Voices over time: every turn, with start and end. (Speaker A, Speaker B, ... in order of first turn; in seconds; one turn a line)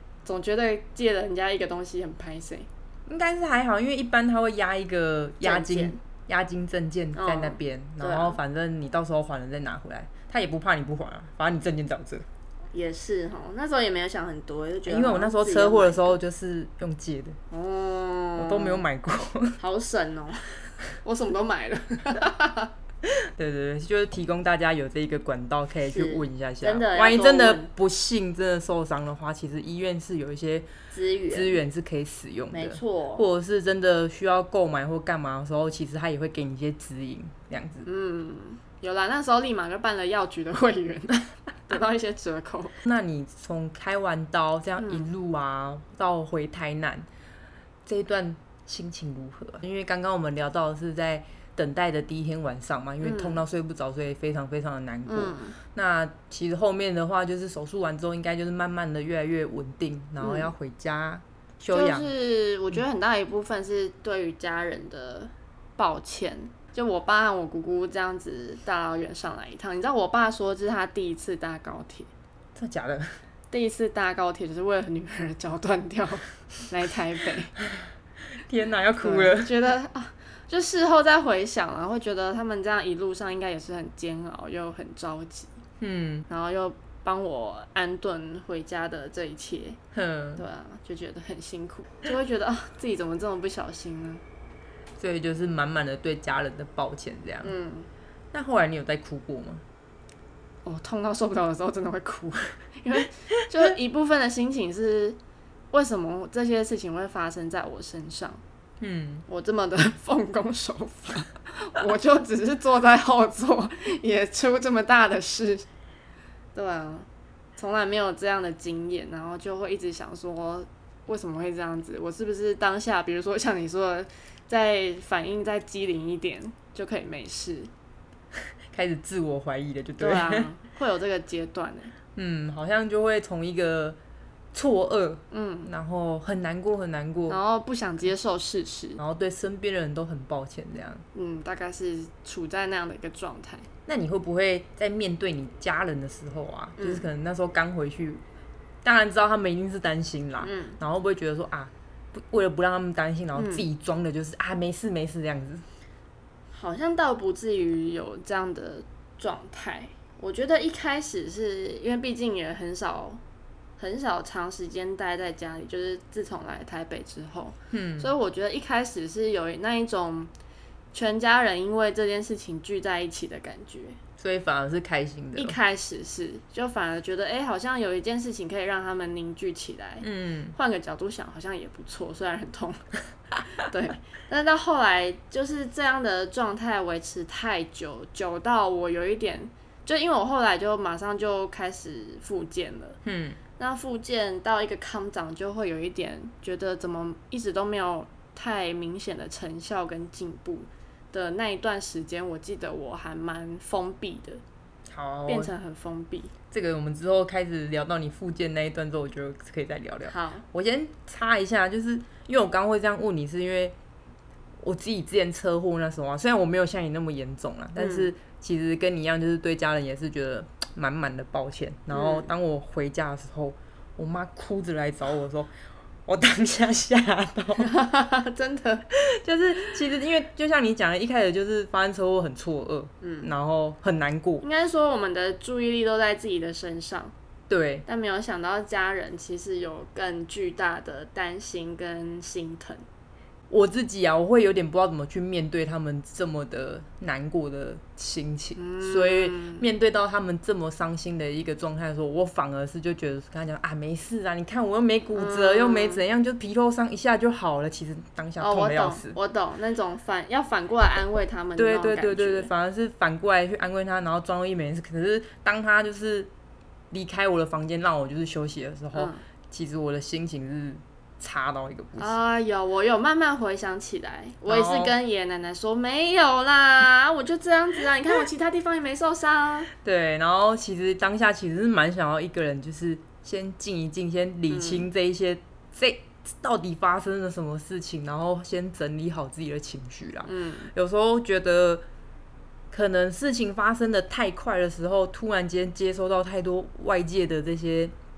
Speaker A: 0.2-2.7
Speaker B: 3.0-12.2
Speaker A: 5.4-6.0
Speaker A: 7.1-8.4
Speaker A: 12.7-16.2
Speaker B: 14.9-17.4
Speaker A: 17.5-18.8
Speaker B: 18.4-19.6
Speaker A: 19.6-22.7
Speaker B: 23.0-30.7
Speaker A: 25.9-27.7
Speaker A: 30.9-31.6
Speaker B: 31.3-37.9
Speaker A: 32.5-33.2
Speaker A: 37.8-42.7
Speaker B: 42.8-47.1
Speaker A: 44.8-45.1
Speaker B: 47.9-62.1
Speaker A: 53.0-53.4
Speaker A: 55.1-55.5
Speaker A: 60.2-60.5
Speaker A: 61.7-72.1
Speaker B: 72.5-73.2
Speaker A: 73.5-77.5
Speaker B: 78.4-79.5
Speaker A: 79.0-85.5
Speaker B: 85.8-86.2
Speaker A: 86.3-89.8
Speaker B: 89.9-90.4
Speaker A: 90.4-94.2
Speaker B: 95.0-97.5
Speaker A: 97.4-97.9
Speaker B: 98.3-99.6
Speaker A: 100.6-105.2
Speaker A: 105.7-108.4
Speaker B: 108.8-109.2
Speaker A: 109.3-115.7
Speaker A: 116.5-127.7
Speaker B: 128.7-130.5
Speaker A: 130.0-131.9
Speaker B: 132.1-134.0
Speaker B: 134.5-137.4
Speaker A: 135.3-135.7
Speaker A: 137.3-139.0
Speaker B: 139.0-141.0
Speaker A: 141.1-143.7
Speaker B: 143.8-148.2
Speaker A: 146.8-147.1
Speaker B: 148.8-155.6
Speaker A: 150.4-150.8
Speaker A: 153.3-153.7
Speaker A: 156.5-163.2
Speaker A: 163.8-170.3
Speaker B: 167.7-168.1
Speaker A: 170.9-174.0
Speaker B: 174.2-175.6
Speaker A: 175.3-182.8
Speaker B: 180.0-180.5
Speaker A: 183.6-193.0
Speaker B: 193.0-193.4
Speaker A: 193.6-204.4
Speaker B: 204.9-205.5
Speaker A: 205.3-206.3
Speaker B: 206.5-213.7
Speaker A: 210.1-210.4
Speaker B: 214.6-225.5
Speaker A: 217.8-218.1
Speaker A: 221.9-222.3
Speaker B: 226.1-227.7
Speaker A: 227.6-228.8
Speaker B: 228.9-234.4
Speaker A: 233.0-233.3
Speaker A: 234.4-237.1
Speaker B: 237.5-237.8
Speaker A: 237.8-242.8
Speaker B: 243.5-259.1
Speaker A: 248.6-249.6
Speaker A: 255.1-256.0
Speaker A: 258.4-262.5
Speaker B: 261.6-266.3
Speaker B: 266.9-272.1
Speaker A: 268.9-269.2
Speaker A: 272.0-279.7
Speaker B: 274.5-274.9
Speaker B: 279.8-291.8
Speaker A: 284.5-284.9
Speaker A: 290.2-290.7
Speaker B: 292.7-297.9